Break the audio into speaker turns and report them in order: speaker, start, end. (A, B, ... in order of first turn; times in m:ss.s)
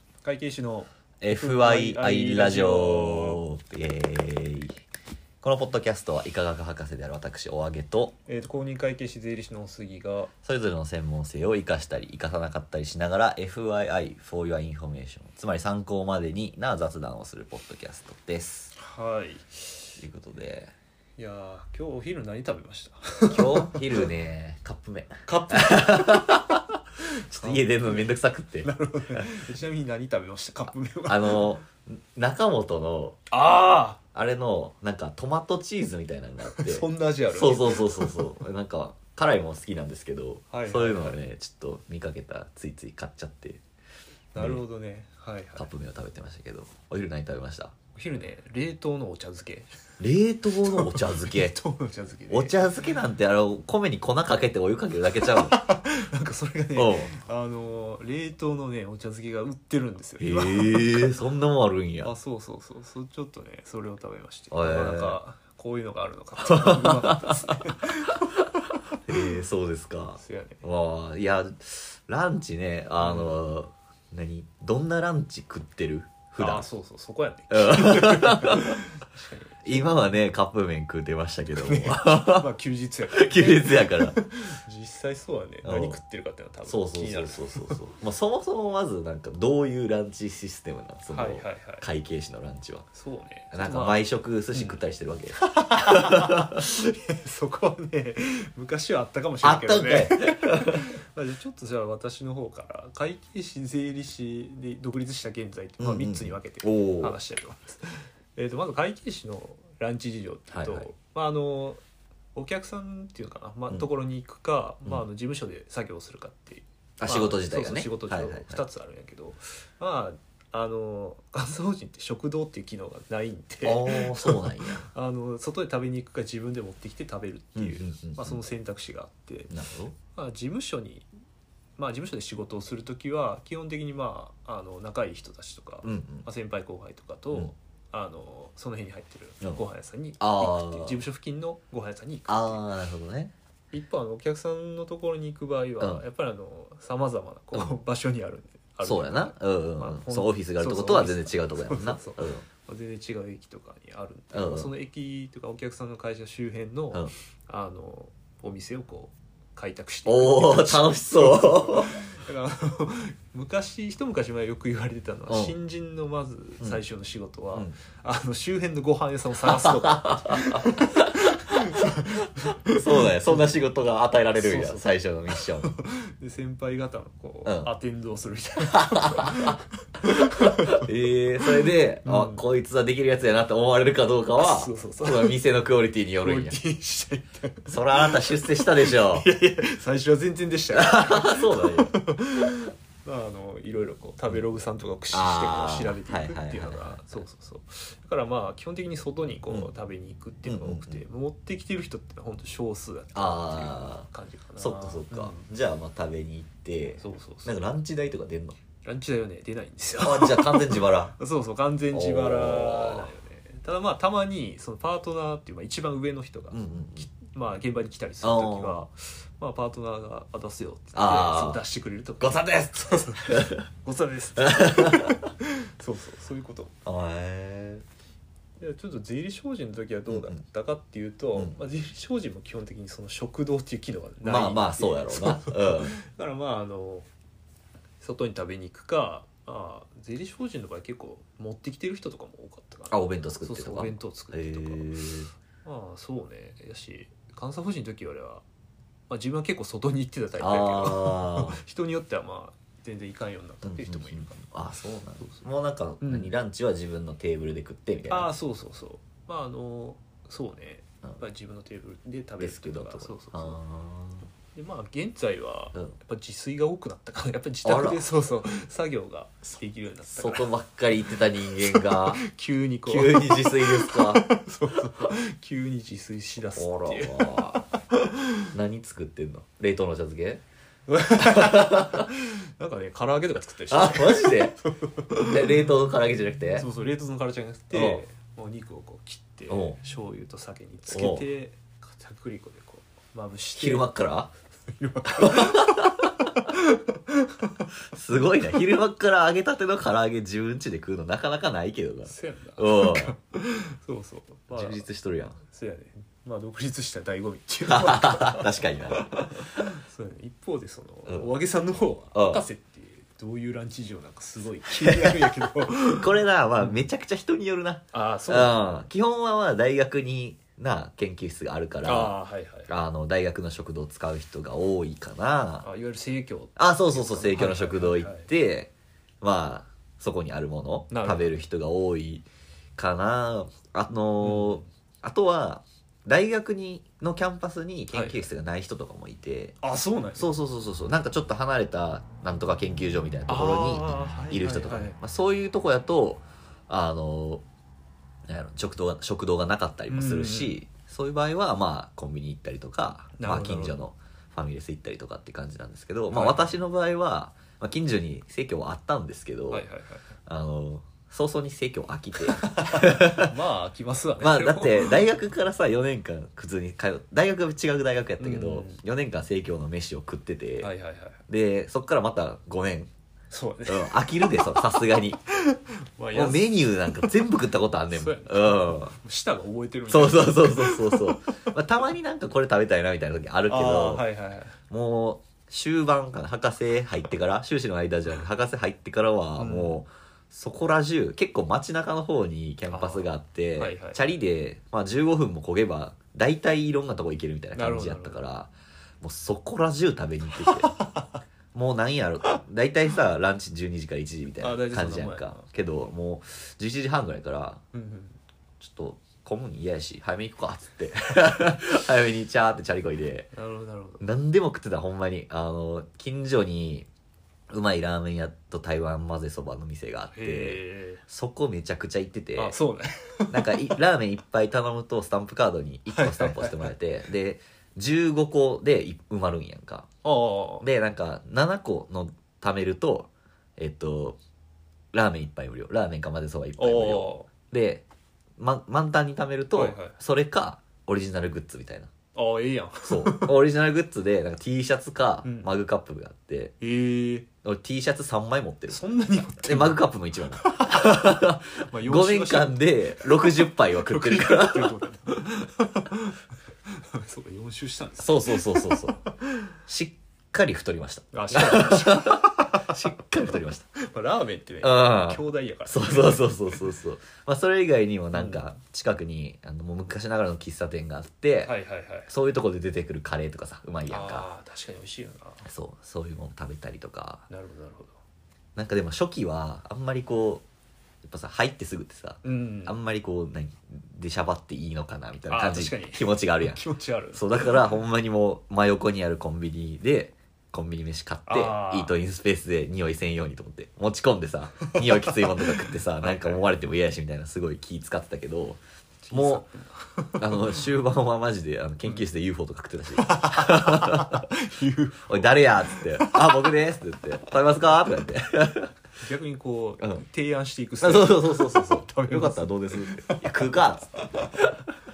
0:00.2-0:03.4 A
0:01.2-0:04.8 B
0:05.4-0:08.2 B
0:08.3-0:10.3 A
0:10.4-0:18.8 B
0:18.8-0:19.9 A
0:20.0-0:20.7 B
0:21.2-0:24.1 A
0:23.3-0:26.6 B
0:25.2-0:26.6 A
0:27.3-0:29.3 B
0:27.3-0:28.1 A
0:28.6-0:31.6 A
0:31.1-0:33.2 B
0:33.3-0:34.0 A
0:34.1-0:43.6 B
0:36.4-0:38.3 A
0:40.5-0:41.2 A
0:44.3-0:45.7 A
0:44.4-0:44.6 B
0:45.6-0:47.8 B
0:48.0-0:49.7 A
0:50.0-0:51.6 B
0:50.7-0:52.7 A
0:52.3-0:55.6 B
0:55.4-1:01.2 A
0:56.8-0:57.1 B
1:00.2-1:02.1 B
1:02.0-1:09.3 A
1:04.5-1:05.2 B
1:06.4-1:07.6 B
1:09.1-1:16.6 B
1:10.2-1:10.6 A
1:13.0-1:13.4 A
1:16.4-1:20.0 A
1:17.5-1:18.8 B
1:19.6-1:22.5 B
1:21.6-1:27.8 A
1:23.1-1:24.2 B
1:25.6-1:26.0 B
1:26.7-1:32.9 B
1:31.1-1:31.8 A
1:32.9-1:34.8 A
1:33.5-1:36.6 B
1:35.4-1:51.8 A
1:39.4-1:40.8 B
1:45.8-1:47.2 B
1:50.5-1:50.9 B
1:52.4-2:09.5 A
1:57.0-1:58.6 B
2:03.6-2:04.9 B
2:07.6-2:08.4 B
2:09.5-2:10.0 B
2:10.1-2:11.1 A
2:11.8-2:22.6 A
2:15.8-2:16.3 B
2:20.2-2:21.0 B
2:22.3-2:23.3 B
2:23.7-2:53.4 A
2:28.8-2:32.5 B
2:34.3-2:34.7 B
2:40.1-2:42.0 B
2:45.3-2:45.6 B
2:49.5-2:51.9 B
2:52.7-2:55.7 B
2:54.4-3:00.9 A
2:57.4-2:57.7 B
2:58.7-2:59.6 B
3:00.2-3:06.6 B
3:01.5-3:02.4 A
3:04.4-3:05.4 A
3:06.2-3:25.5 A
3:07.7-3:09.3 B
3:10.7-3:11.9 B
3:15.1-3:17.2 B
3:20.5-3:21.0 B
3:23.1-3:28.6 B
3:27.0-3:27.6 A
3:28.8-3:46.7 A
3:30.0-3:31.2 B
3:31.9-3:33.1 B
3:36.5-3:37.1 B
3:38.2-3:38.8 B
3:40.9-3:41.6 B
3:42.2-3:43.6 B
3:44.4-3:45.2 B
3:46.8-3:47.8 B
3:48.6-3:57.1 A
3:50.1-3:50.4 B
3:54.2-3:56.0 B
3:58.0-4:04.9 A
4:02.9-4:05.3 B
4:05.6-4:08.4 A
4:09.1-4:14.4 A
4:10.4-4:11.6 B
4:13.6-4:18.3 B
4:16.0-4:16.3 A
4:18.1-4:23.6 A
4:22.4-4:24.3 B
4:24.5-4:38.5 A
4:27.6-4:28.0 B
4:30.1-4:32.2 B
4:32.9-4:34.3 B
4:36.6-4:37.7 B
4:38.5-4:40.4 B
4:40.9-4:45.7 A
4:41.2-4:42.1 B
4:43.7-4:44.6 B
4:45.2-4:46.7 B
4:46.5-4:53.9 A
4:47.7-4:48.0 B
4:49.5-4:49.8 B
4:50.9-4:51.2 B
4:53.6-4:54.3 B
4:54.7-4:57.7 A
4:55.2-4:56.0 B
4:57.9-5:03.2 B
5:02.1-5:04.9 A
5:04.5-5:05.4 B
5:05.4-5:16.8 A
5:07.6-5:09.6 B
5:11.1-5:11.3 B
5:12.1-5:12.4 B
5:14.7-5:22.2 B
5:17.9-5:18.9 A
5:21.8-5:22.7 A
5:22.7-5:25.7 B
5:25.6-5:28.3 A
5:26.6-5:32.3 B
5:30.9-5:31.3 A
5:32.8-5:39.6 B
5:34.2-5:34.7 A
5:37.9-5:38.3 A
5:39.6-5:40.3 A
5:40.2-5:47.4 B
5:43.3-5:45.0 A
5:48.3-5:59.7 B
5:49.9-5:50.6 A
5:53.2-5:53.8 A
5:56.1-5:56.4 A
5:59.5-6:00.1 A
6:00.2-6:03.3 B
6:02.3-6:05.0 A
6:04.2-6:10.7 B
6:08.2-6:08.8 A
6:10.6-6:11.2 A
6:11.3-6:12.9 B
6:13.3-6:17.1 A
6:13.7-6:15.2 B
6:16.1-6:19.0 B
6:17.9-6:21.3 A
6:19.9-6:24.1 B
6:23.5-6:24.6 A
6:24.6-6:40.7 B
6:29.4-6:29.8 A
6:32.7-6:34.0 A
6:37.6-6:38.2 A
6:40.4-6:41.1 A
6:41.5-6:47.6 B
6:44.4-6:45.5 A
6:47.7-6:48.2 A
6:48.6-6:53.3 B
6:53.3-6:54.0 A
6:54.0-6:56.9 B
6:57.5-7:02.6 B
7:00.1-7:01.0 A
7:02.4-7:03.8 A
7:03.3-7:09.9 B
7:05.9-7:06.7 A
7:10.0-7:10.7 A
7:10.6-7:14.2 B
7:14.9-7:17.8 B
7:16.6-7:17.3 A
7:18.4-7:21.9 B
7:19.5-7:20.0 A
7:22.1-7:23.4 A
7:22.8-7:26.6 B
7:25.2-7:25.5 A
7:26.6-7:27.3 A
7:27.3-7:28.8 B
7:28.7-7:29.8 A
7:29.4-7:34.8 B
7:30.4-7:39.5 A
7:38.0-7:39.0 B
7:39.6-7:43.7 B
7:41.1-7:42.8 A
7:43.8-7:46.6 A
7:44.6-7:54.3 B
7:48.1-7:48.5 A
7:51.4-7:52.1 A
7:53.9-7:55.4 A
7:55.4-7:57.2 B
7:57.3-7:58.0 A
7:58.6-8:00.4 B
8:01.0-8:06.6 B
8:02.2-8:02.8 A
8:05.3-8:07.7 A
8:07.1-8:18.6 B
8:11.3-8:12.0 A
8:14.7-8:16.5 A
8:19.0-8:20.6 A
8:19.1-8:19.4 B
8:20.2-8:24.2 B
8:23.0-8:26.5 A
8:25.0-8:28.7 B
8:29.0-8:34.3 A
8:30.8-8:34.5 B